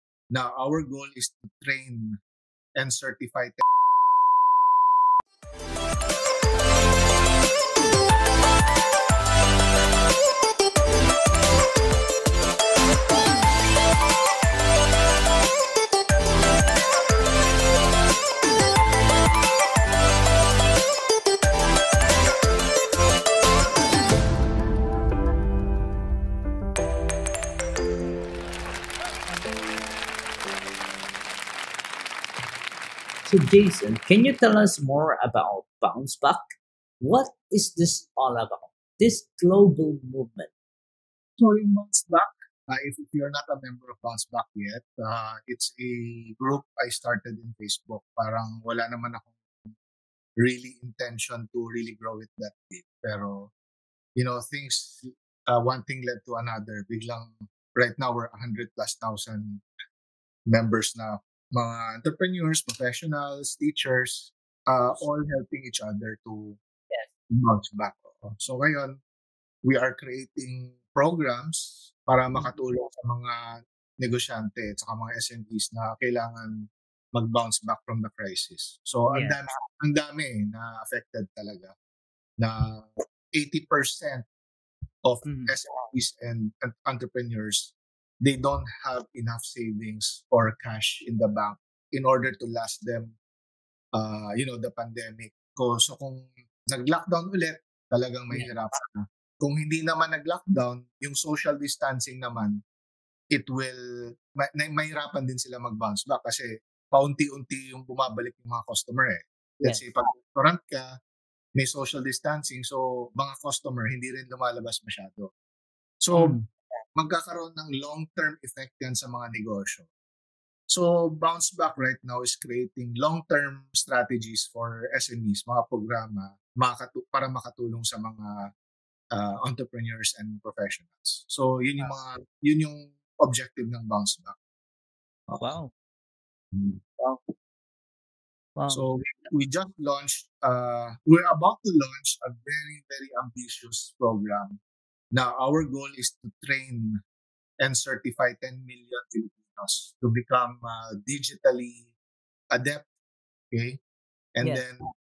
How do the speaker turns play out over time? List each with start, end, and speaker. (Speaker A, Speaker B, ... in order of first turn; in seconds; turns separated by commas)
Speaker A: 0.3-2.2, Speaker A: 2.8-3.6, Speaker B: 33.2-36.4, Speaker B: 37.0-40.5, Speaker A: 41.4-49.7, Speaker A: 50.4-53.5, Speaker A: 54.1-59.6, Speaker A: 60.5-66.6, Speaker A: 67.3-69.0, Speaker A: 69.6-73.4, Speaker A: 74.0-81.7, Speaker B: 79.1-79.4, Speaker A: 82.4-84.2, Speaker A: 85.0-93.1, Speaker B: 85.2-85.5, Speaker A: 93.9-102.6, Speaker A: 103.3-110.9, Speaker A: 111.6-115.3, Speaker A: 116.0-116.4, Speaker B: 116.1-116.4, Speaker A: 117.0-119.9, Speaker A: 120.7-128.5, Speaker A: 129.1-134.3, Speaker B: 135.4-135.7, Speaker B: 136.5-137.3, Speaker B: 138.6-138.8, Speaker A: 138.7-144.6, Speaker A: 145.1-147.0, Speaker A: 147.6-151.9, Speaker A: 152.5-152.9, Speaker A: 153.5-153.8, Speaker A: 154.3-154.8